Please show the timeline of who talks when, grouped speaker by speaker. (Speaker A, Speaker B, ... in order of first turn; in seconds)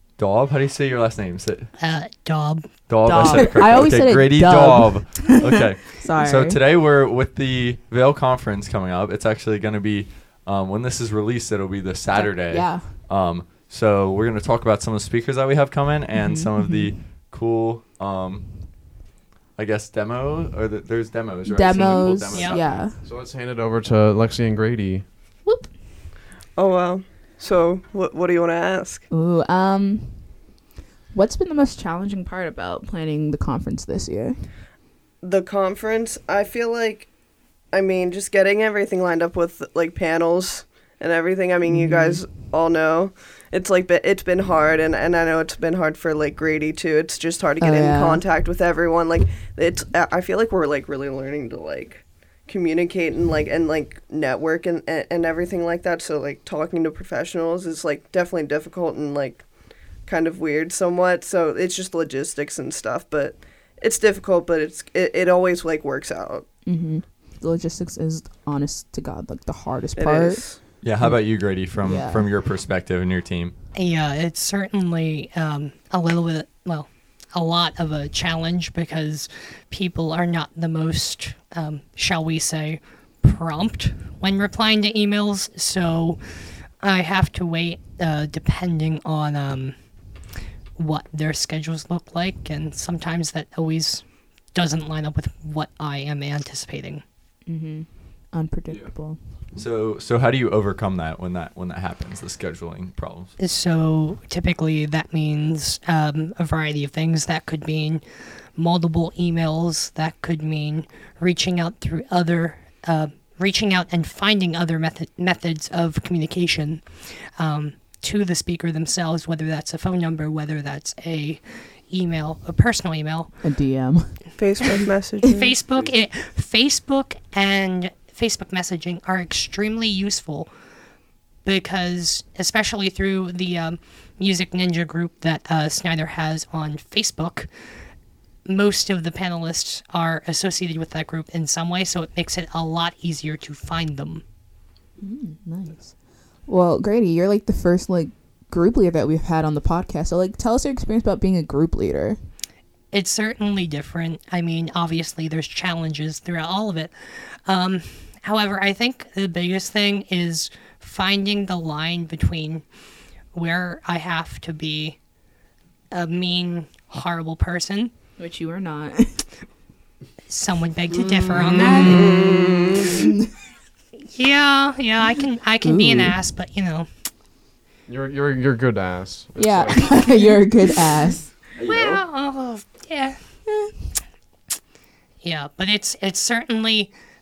Speaker A: 0.2-1.7, 2.9-18.5, 19.6-22.8, 70.8-73.5, 99.5-103.3, 181.5-182.0
Speaker B: 1.8-2.7, 22.3-22.6, 73.7-89.7, 90.7-97.0, 103.4-123.3, 125.3-130.5, 131.4-137.5, 138.4-144.2, 152.9-162.6, 163.3-165.0, 165.9-167.9, 170.3-172.2, 174.0-176.9, 181.6-183.2, 185.2-186.9
Speaker C: 3.0-6.6, 12.1-12.9, 16.1-16.9, 21.4-22.9, 25.4-25.7, 29.1-30.3, 31.1-34.4, 41.7-42.2, 47.6-48.2, 66.7-70.5, 71.0-72.3, 97.5-99.2, 123.4-124.3, 145.0-145.9, 146.5-152.2, 168.2-169.3, 171.3-173.3, 175.6-176.2, 179.4-181.3, 183.5-183.7
Speaker D: 23.0-25.0, 177.9-180.1
Speaker E: 26.6-29.0, 35.2-37.1, 37.7-59.4, 60.0-66.5, 70.0-70.6, 124.4-125.5, 171.8-173.0